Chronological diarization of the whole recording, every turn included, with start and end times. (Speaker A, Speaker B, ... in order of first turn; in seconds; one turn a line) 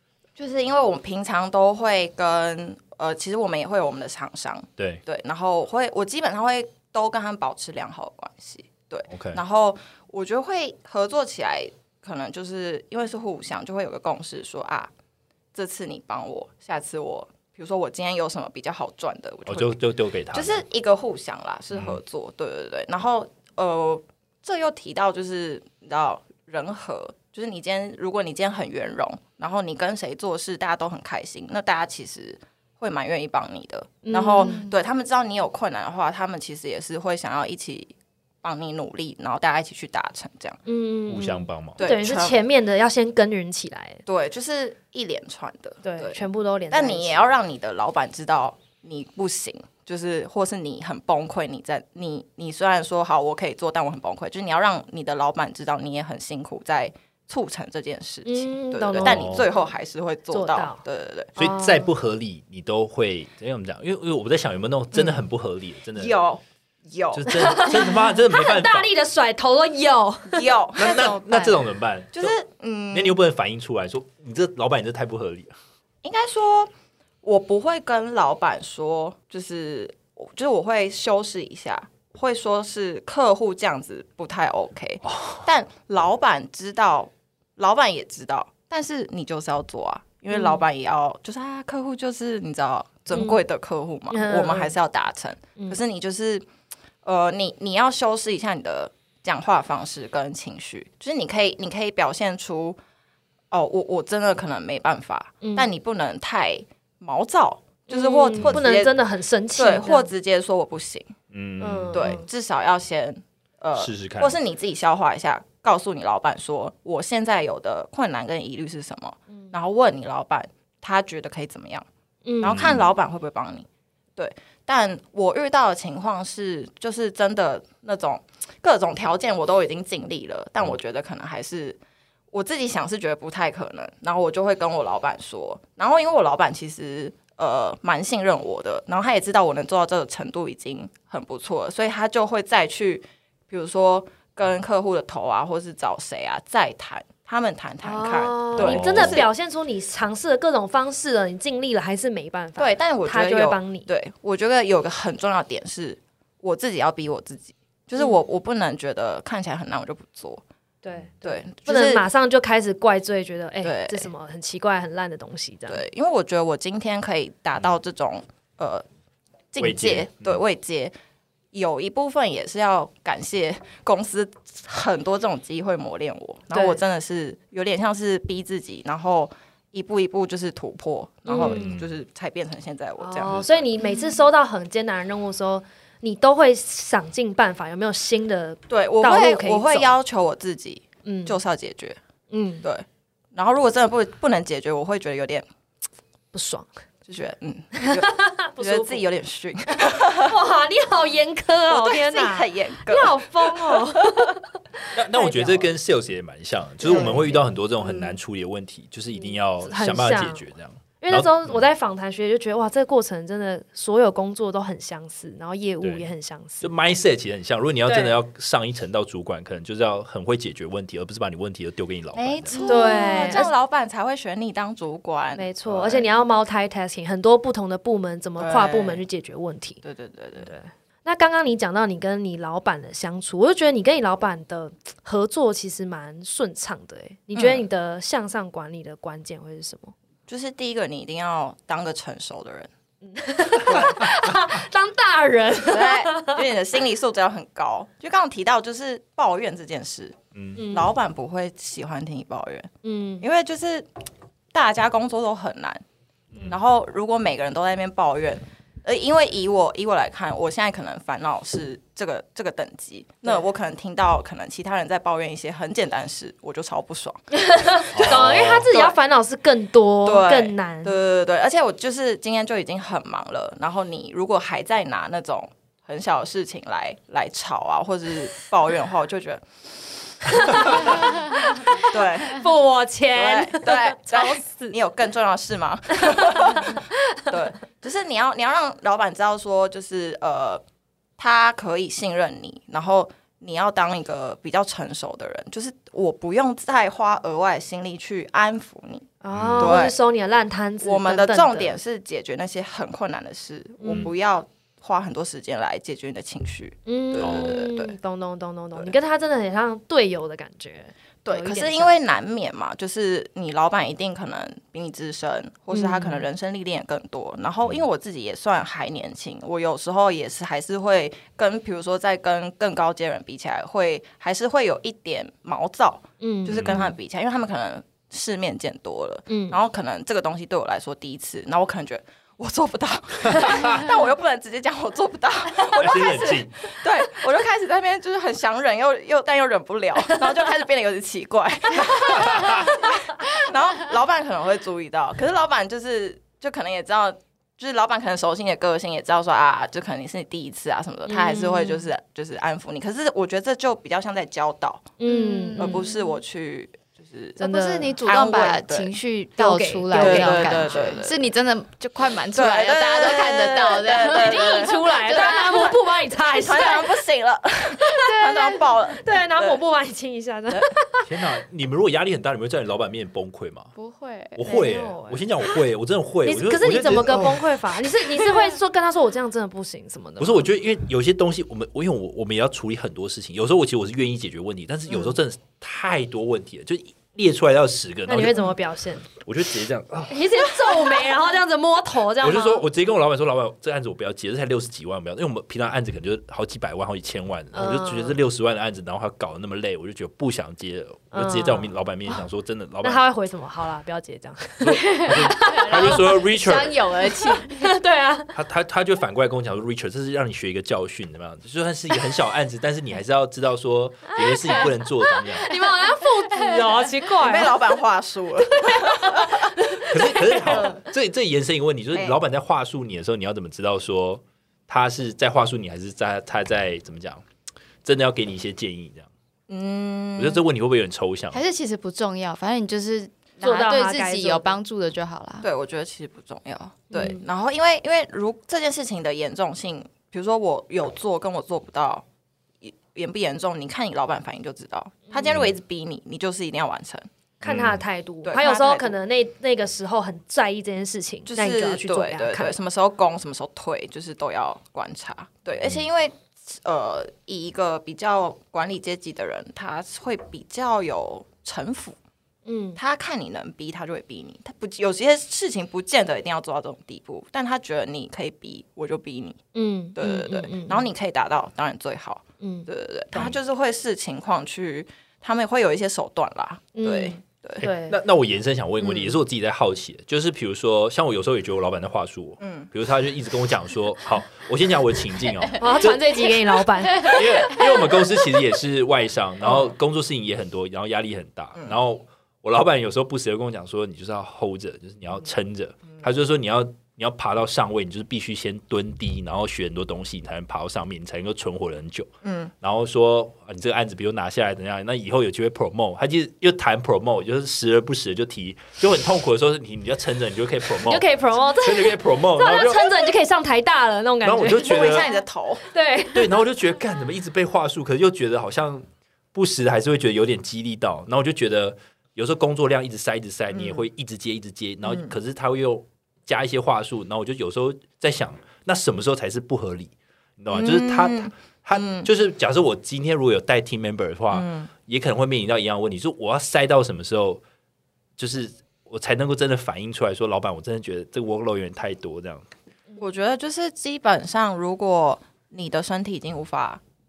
Speaker A: 0.4-14.9
Speaker B: 9.1-9.4
Speaker A: 15.5-19.8
Speaker B: 19.5-20.6
Speaker A: 20.3-40.6
Speaker B: 21.7-22.0
Speaker C: 34.0-34.6
Speaker D: 34.4-34.7
Speaker C: 40.7-44.0
Speaker B: 41.1-41.9
Speaker A: 41.8-42.4
Speaker A: 44.0-61.4
Speaker C: 45.8-47.3
Speaker C: 58.2-59.4
Speaker B: 59.0-59.5
Speaker C: 60.3-60.8
Speaker B: 61.4-66.2
Speaker C: 61.4-61.9
Speaker A: 64.9-65.2
Speaker A: 66.0-67.5
Speaker B: 67.1-68.9
Speaker C: 67.3-70.5
Speaker A: 70.3-71.6
Speaker B: 70.8-72.3
Speaker A: 72.1-73.2
Speaker B: 72.9-75.5
Speaker A: 76.0-76.7
Speaker A: 77.2-96.5
Speaker B: 85.0-85.5
Speaker C: 90.3-90.6
Speaker C: 93.1-93.4
Speaker C: 94.1-94.7
Speaker A: 97.0-102.8
Speaker A: 103.5-108.9
Speaker C: 105.4-105.7
Speaker C: 107.9-110.1
Speaker A: 109.6-111.1
Speaker B: 111.3-112.2
Speaker C: 111.6-112.2
Speaker A: 111.9-121.9
Speaker B: 113.8-114.4
Speaker C: 122.2-122.7
Speaker A: 122.4-131.8
Speaker B: 122.4-122.8
Speaker A: 132.3-149.3
Speaker C: 147.8-153.9
Speaker B: 148.6-149.3
Speaker A: 152.6-160.4
Speaker C: 160.8-165.8
Speaker A: 161.2-162.0
Speaker A: 163.6-164.1
Speaker A: 165.7-168.8
Speaker A: 169.5-170.9
Speaker B: 169.6-170.4
Speaker A: 171.5-183.7
Speaker C: 176.5-176.8
Speaker C: 181.2-181.8
Speaker B: 181.3-181.9
Speaker C: 183.0-189.9
Speaker A: 188.7-192.0
Speaker C: 191.0-191.4
Speaker C: 192.3-192.7
Speaker A: 192.6-195.4
Speaker C: 196.3-196.7
Speaker A: 197.0-200.3
Speaker C: 197.8-199.0
Speaker C: 199.8-205.7
Speaker A: 201.7-204.3
Speaker B: 204.9-211.7
Speaker A: 206.8-208.1
Speaker C: 206.8-207.4
Speaker C: 209.2-210.4
Speaker C: 211.0-216.7
Speaker B: 215.8-216.1
Speaker B: 216.6-222.6
Speaker C: 217.9-218.2
Speaker A: 222.2-226.0
Speaker D: 222.5-223.4
Speaker C: 222.6-223.5
Speaker C: 225.4-229.8
Speaker A: 228.4-229.0
Speaker A: 229.8-230.5
Speaker C: 230.4-239.9
Speaker A: 237.3-237.6
Speaker A: 240.3-242.7
Speaker C: 243.0-246.4
Speaker A: 243.7-244.0
Speaker A: 245.7-252.7
Speaker B: 250.3-250.6
Speaker C: 250.6-250.9
Speaker C: 252.8-253.2
Speaker A: 253.2-253.9
Speaker A: 254.5-255.8
Speaker A: 256.4-268.9
Speaker C: 267.4-270.9
Speaker B: 267.9-268.7
Speaker A: 270.0-281.1
Speaker C: 280.4-284.8
Speaker A: 281.7-282.5
Speaker A: 283.1-290.6
Speaker C: 286.0-287.3
Speaker A: 291.2-299.9
Speaker C: 299.2-301.8
Speaker B: 299.3-299.8
Speaker A: 300.8-307.9
Speaker C: 303.8-304.1
Speaker C: 306.9-311.9
Speaker B: 307.2-307.6
Speaker A: 311.2-354.9
Speaker C: 315.7-316.2
Speaker C: 326.2-326.7
Speaker B: 326.5-326.9
Speaker C: 329.3-329.6
Speaker B: 333.3-333.9
Speaker B: 335.7-336.7
Speaker B: 342.1-342.7
Speaker C: 351.1-351.8
Speaker C: 355.0-355.9
Speaker D: 355.0-356.1
Speaker A: 355.6-358.9
Speaker D: 357.4-365.7
Speaker C: 357.4-357.9
Speaker C: 359.4-361.0
Speaker A: 359.9-361.2
Speaker A: 362.3-369.6
Speaker C: 364.1-366.9
Speaker C: 368.0-371.1
Speaker D: 368.2-368.6
Speaker B: 371.0-373.7
Speaker D: 373.8-374.7
Speaker B: 374.3-377.4
Speaker C: 374.4-375.3
Speaker C: 376.2-380.5
Speaker D: 378.1-378.4
Speaker B: 380.2-388.5
Speaker C: 388.1-389.1
Speaker B: 389.1-390.9
Speaker C: 390.1-392.6
Speaker B: 392.2-403.0
Speaker C: 397.5-398.2
Speaker C: 401.1-401.7
Speaker C: 402.8-406.1
Speaker B: 404.6-406.9
Speaker D: 404.8-407.7
Speaker C: 407.0-408.3
Speaker B: 408.3-415.5
Speaker C: 414.2-414.7
Speaker C: 415.2-417.6
Speaker D: 415.5-416.9
Speaker A: 417.2-419.6
Speaker C: 418.5-420.8
Speaker B: 419.9-427.2
Speaker A: 420.4-420.8
Speaker A: 421.9-422.2
Speaker B: 427.8-429.1
Speaker A: 429.5-430.4
Speaker B: 430.2-431.4
Speaker D: 431.3-435.5
Speaker C: 433.4-434.6
Speaker A: 435.4-442.0
Speaker C: 436.9-437.2
Speaker A: 442.6-447.1
Speaker B: 445.2-445.5
Speaker C: 447.4-452.6
Speaker B: 447.4-447.8
Speaker A: 448.2-448.9
Speaker A: 451.2-462.0
Speaker C: 462.4-462.8
Speaker A: 462.8-469.4
Speaker C: 469.5-470.9
Speaker A: 469.9-477.6
Speaker C: 472.4-472.7
Speaker C: 476.7-478.0
Speaker B: 477.6-486.3
Speaker A: 478.8-479.1
Speaker A: 482.4-482.7
Speaker C: 485.6-487.5
Speaker D: 486.9-487.9
Speaker B: 486.9-502.1
Speaker A: 489.4-489.7
Speaker A: 502.2-502.5
Speaker B: 502.6-513.1
Speaker C: 510.8-515.1
Speaker B: 514.2-515.1
Speaker A: 514.5-515.6
Speaker C: 515.7-516.3
Speaker B: 516.1-537.4
Speaker A: 523.5-523.8
Speaker A: 524.8-525.1
Speaker A: 530.5-532.1
Speaker A: 534.3-534.7
Speaker B: 538.2-542.4
Speaker A: 543.0-546.8